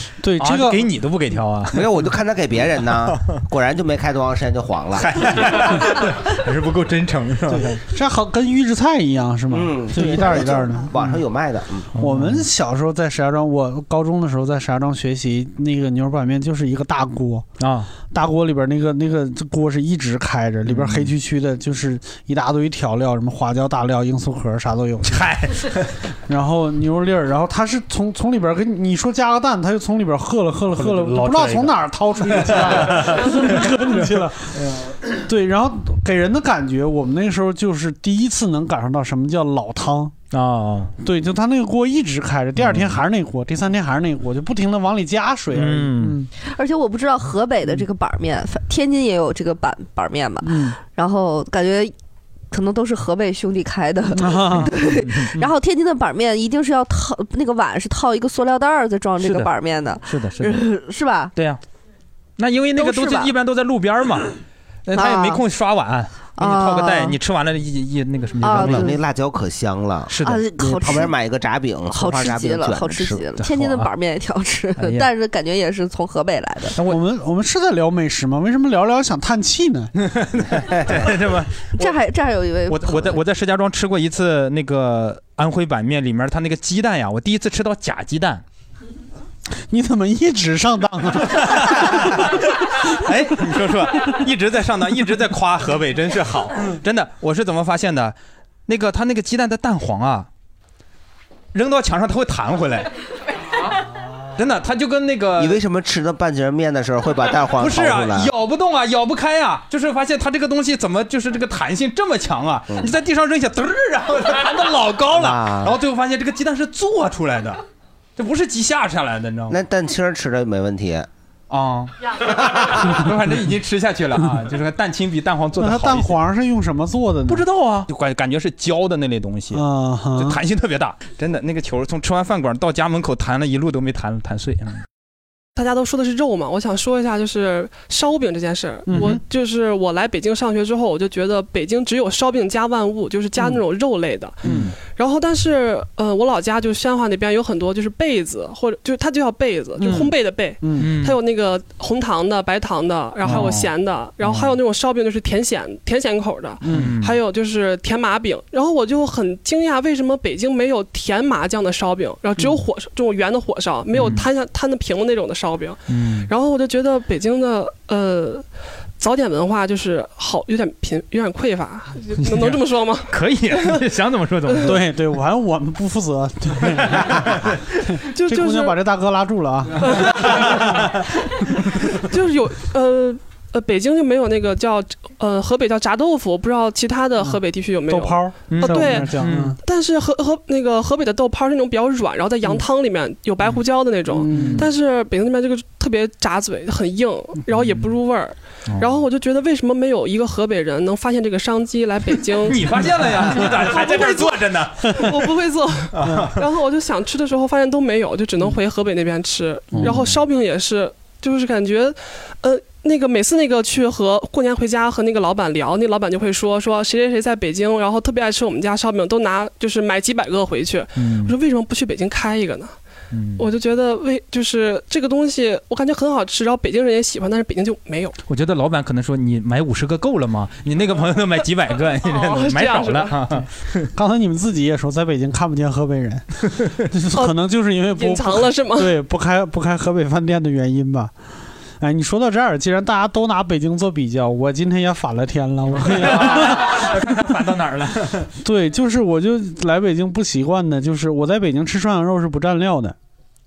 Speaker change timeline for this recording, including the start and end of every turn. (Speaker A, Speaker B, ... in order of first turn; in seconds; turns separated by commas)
Speaker A: 0.2-0.9, Speaker B: 0.4-1.9, Speaker C: 1.7-5.4, Speaker B: 3.1-3.4, Speaker B: 5.0-7.8, Speaker A: 7.5-10.9, Speaker C: 9.5-11.9, Speaker B: 11.9-12.5, Speaker A: 12.0-17.5, Speaker B: 17.6-17.9, Speaker A: 18.1-25.2, Speaker B: 20.7-21.1, Speaker B: 25.0-25.9, Speaker A: 26.3-34.5, Speaker B: 30.7-34.9, Speaker A: 35.2-40.1, Speaker B: 40.3-40.9, Speaker A: 41.0-46.3, Speaker B: 42.6-43.0, Speaker B: 45.5-46.2, Speaker D: 46.4-51.9, Speaker A: 50.4-50.8, Speaker D: 52.5-61.3, Speaker A: 54.1-54.7, Speaker B: 55.0-55.4, Speaker B: 59.2-59.5, Speaker B: 60.0-60.7, Speaker B: 61.3-61.6, Speaker B: 62.4-64.3, Speaker D: 62.8-63.3, Speaker B: 64.8-68.9, Speaker D: 64.9-65.4, Speaker D: 66.3-67.2, Speaker D: 68.4-69.0, Speaker C: 68.5-70.1, Speaker B: 70.1-71.0, Speaker D: 70.2-71.1, Speaker C: 70.8-73.2, Speaker D: 71.9-76.8, Speaker B: 73.4-73.9, Speaker B: 74.8-75.1, Speaker A: 76.8-79.9, Speaker B: 80.0-81.9, Speaker C: 80.6-81.1, Speaker D: 81.7-83.2, Speaker B: 82.7-88.4, Speaker A: 89.7-92.3, Speaker B: 91.3-98.2, Speaker B: 98.7-100.3, Speaker B: 101.5-102.9, Speaker B: 104.3-105.6, Speaker C: 105.4-108.3, Speaker B: 107.6-117.6, Speaker C: 115.1-115.8, Speaker B: 118.2-119.6, Speaker C: 119.5-121.1, Speaker B: 121.5-126.2, Speaker A: 125.6-127.4, Speaker B: 127.3-129.6, Speaker A: 129.5-130.4, Speaker B: 130.1-134.8, Speaker E: 135.6-168.4, Speaker A: 138.9-139.2, Speaker B: 144.4-144.7, Speaker A: 149.8-150.9, Speaker B: 150.8-151.2, Speaker B: 153.2-153.7, Speaker B: 154.2-154.5, Speaker A: 156.6-156.9, Speaker B: 156.7-157.2, Speaker B: 163.9-164.2, Speaker B: 165.9-166.3, Speaker E: 169.0-173.1, Speaker B: 172.2-174.8, Speaker A: 174.6-180.8, Speaker B: 176.8-177.6, Speaker E: 178.2-178.7, Speaker E: 179.9-180.4, Speaker E: 182.1-189.1, Speaker A: 187.2-189.6, Speaker B: 188.5-189.6, Speaker E: 189.6-202.6, Speaker A: 194.1-194.7, Speaker B: 194.3-194.7, Speaker B: 198.7-199.0, Speaker B: 202.4-205.3, Speaker E: 203.3-204.4, Speaker E: 204.9-222.7, Speaker B: 205.9-206.4, Speaker A: 206.0-206.3, Speaker B: 209.7-210.2, Speaker B: 220.9-221.3, Speaker B: 223.1-223.5, Speaker E: 223.4-228.1, Speaker B: 228.3-233.9, Speaker E: 232.0-233.1, Speaker A: 233.9-241.1, Speaker E: 237.9-238.9, Speaker A: 241.8-246.9, Speaker B: 245.8-248.3, Speaker A: 248.4-252.9